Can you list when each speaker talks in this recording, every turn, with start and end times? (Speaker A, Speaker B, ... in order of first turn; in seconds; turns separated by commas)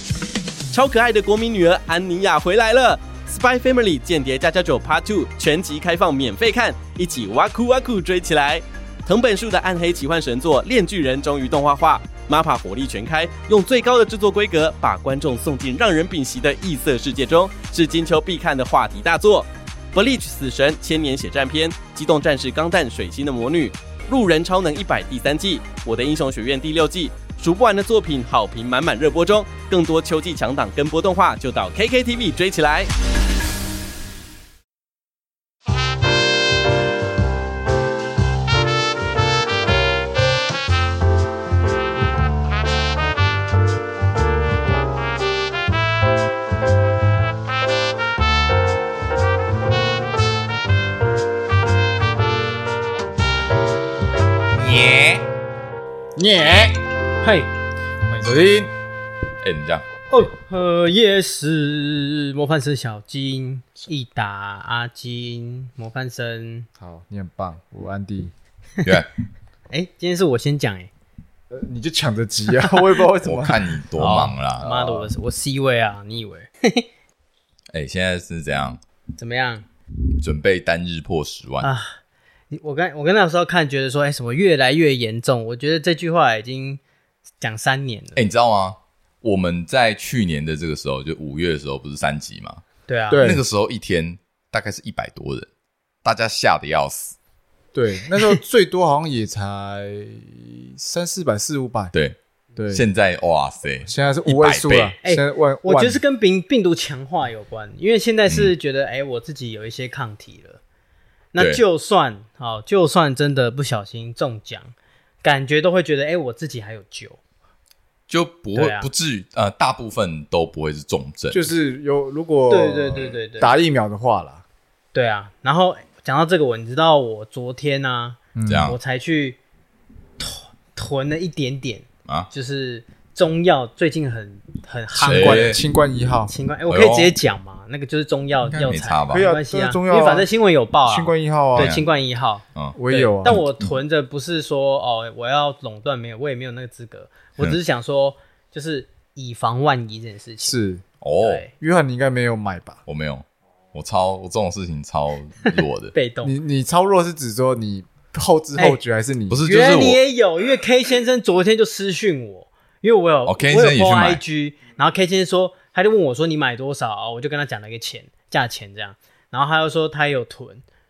Speaker A: 0.7-32.9, Speaker B: 54.5-55.2, Speaker B: 56.2-56.8, Speaker C: 57.2-57.5, Speaker B: 58.1-58.7, Speaker D: 59.4-59.9, Speaker C: 60.1-66.7, Speaker B: 66.8-68.3, Speaker C: 69.7-70.9, Speaker B: 71.5-73.7, Speaker D: 73.2-74.6, Speaker C: 74.0-76.9, Speaker B: 74.6-75.1, Speaker D: 77.7-78.8, Speaker C: 79.2-79.7, Speaker D: 80.2-81.7, Speaker C: 81.6-82.0, Speaker C: 82.5-86.8, Speaker C: 87.4-88.2, Speaker D: 88.2-92.6, Speaker C: 92.9-93.3, Speaker B: 93.1-93.4, Speaker D: 93.2-95.5, Speaker D: 96.0-97.2, Speaker B: 97.7-101.9, Speaker B: 102.6-102.8, Speaker D: 102.7-105.0, Speaker B: 103.8-106.0, Speaker C: 105.0-110.6, Speaker D: 108.3-108.5, Speaker C: 111.3-117.2, Speaker D: 111.4-111.6, Speaker D: 118.1-121.5, Speaker C: 118.5-118.9, Speaker B: 121.3-124.4, Speaker C: 122.5-123.5, Speaker C: 124.9-129.4, Speaker B: 128.3-128.7, Speaker D: 128.5-128.8, Speaker C: 130.2-135.6, Speaker D: 135.0-135.6, Speaker B: 135.0-136.3, Speaker C: 136.3-150.6, Speaker D: 136.7-137.2, Speaker D: 138.4-139.2, Speaker B: 139.1-140.3, Speaker B: 140.9-141.8, Speaker D: 141.6-141.9, Speaker D: 142.6-143.7, Speaker B: 142.8-143.4, Speaker B: 150.5-150.8, Speaker D: 151.0-151.4, Speaker C: 151.2-151.5, Speaker B: 151.6-152.8, Speaker D: 152.9-155.9, Speaker C: 155.4-156.3, Speaker B: 156.2-159.4, Speaker D: 159.3-160.0, Speaker C: 159.4-170.6, Speaker D: 163.3-164.2